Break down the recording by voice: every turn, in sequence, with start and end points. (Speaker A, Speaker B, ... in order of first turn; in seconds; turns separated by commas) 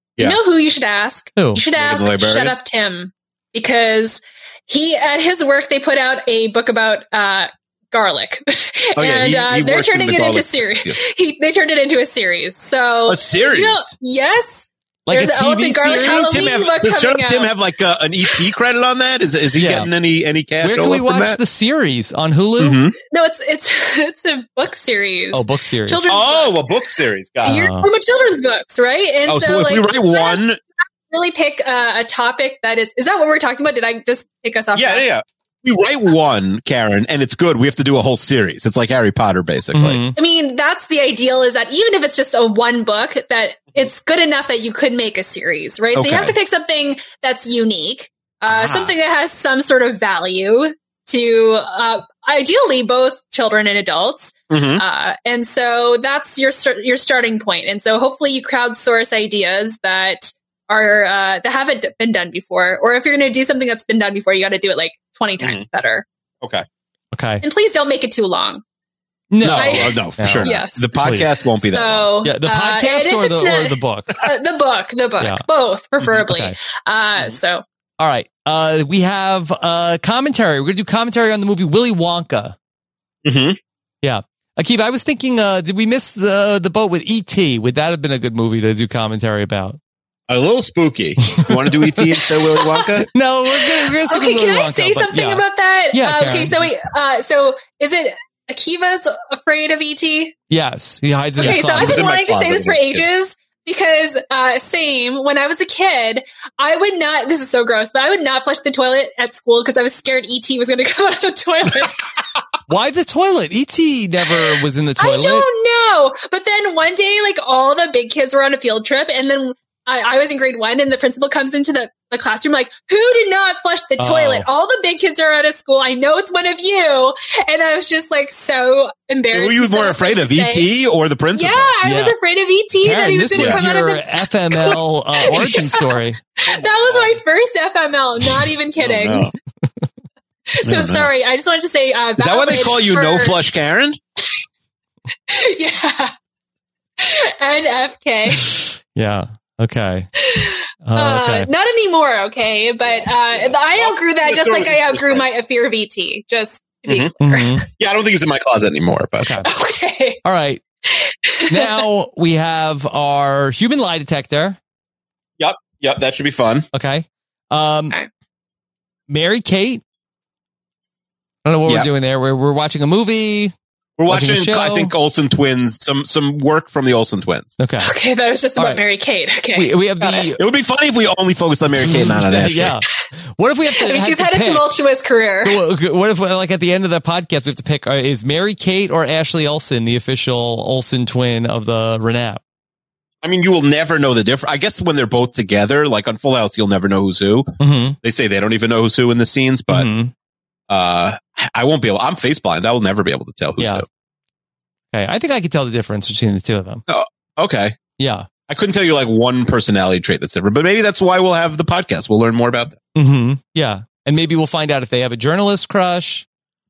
Speaker A: 0.2-17.5, Speaker B: 1.8-2.5, Speaker B: 9.0-11.0, Speaker B: 13.1-13.9, Speaker C: 15.1-16.5, Speaker B: 15.9-21.4, Speaker C: 19.6-19.9, Speaker C: 20.6-22.8, Speaker B: 22.6-22.9, Speaker A: 23.1-26.8, Speaker C: 25.3-26.1, Speaker B: 26.1-27.6, Speaker C: 27.4-27.9, Speaker A: 27.4-30.4, Speaker B: 29.3-30.6, Speaker A: 31.1-35.0, Speaker B: 34.7-40.0, Speaker C: 39.7-40.1, Speaker A: 40.1-66.0, Speaker B: 45.9-46.3, Speaker B: 48.5-48.9, Speaker B: 54.5-54.8, Speaker B: 65.4-65.6, Speaker C: 67.1-67.4, Speaker A: 67.4-68.6, Speaker C: 69.3-71.3, Speaker B: 69.4-72.0, Speaker A: 69.5-70.8, Speaker A: 71.6-77.6, Speaker C: 72.2-74.2, Speaker C: 76.0-76.5, Speaker C: 78.0-82.5, Speaker B: 83.2-83.6, Speaker C: 84.0-89.8, Speaker B: 90.3-93.1, Speaker C: 91.4-92.0, Speaker A: 92.6-92.8, Speaker C: 93.1-96.7, Speaker A: 93.5-100.3, Speaker C: 100.5-102.0, Speaker A: 101.4-112.0, Speaker B: 101.4-103.0, Speaker C: 112.7-115.5, Speaker A: 115.0-130.7, Speaker C: 124.0-124.5, Speaker B: 129.3-131.7, Speaker A: 131.3-139.3, Speaker C: 131.8-132.1, Speaker C: 132.8-136.2, Speaker B: 133.3-133.6, Speaker B: 138.8-139.3, Speaker A: 140.6-143.3, Speaker B: 140.6-141.1, Speaker B: 142.2-144.0, Speaker A: 145.3-146.1, Speaker A: 147.0-148.5, Speaker C: 148.9-150.1, Speaker A: 150.3-157.5, Speaker C: 150.8-151.5, Speaker B: 152.8-155.2, Speaker C: 157.2-157.6, Speaker B: 157.8-159.4, Speaker C: 159.2-159.5, Speaker A: 159.4-160.2, Speaker C: 160.2-160.6, Speaker A: 161.0-161.8, Speaker C: 161.5-164.6, Speaker B: 165.4-166.7, Speaker C: 166.7-167.9, Speaker C: 169.1-169.8, Speaker C: 171.4-173.5, Speaker B: 174.0-177.5, Speaker C: 174.1-174.9, Speaker C: 177.6-177.9, Speaker A: 177.8-180.3, Speaker C: 179.5-180.4, Speaker B: 180.4-182.7, Speaker C: 181.8-182.8, Speaker C: 183.4-184.8, Speaker A: 183.8-185.6, Speaker C: 185.4-192.4, Speaker B: 193.2-197.5, Speaker C: 197.6-198.0, Speaker B: 198.0-199.9, Speaker C: 199.7-200.1, Speaker B: 200.7-203.8, Speaker C: 203.6-203.8, Speaker C: 204.9-206.8, Speaker B: 206.9-207.8, Speaker C: 208.0-208.3, Speaker B: 208.5-212.8, Speaker C: 212.9-216.2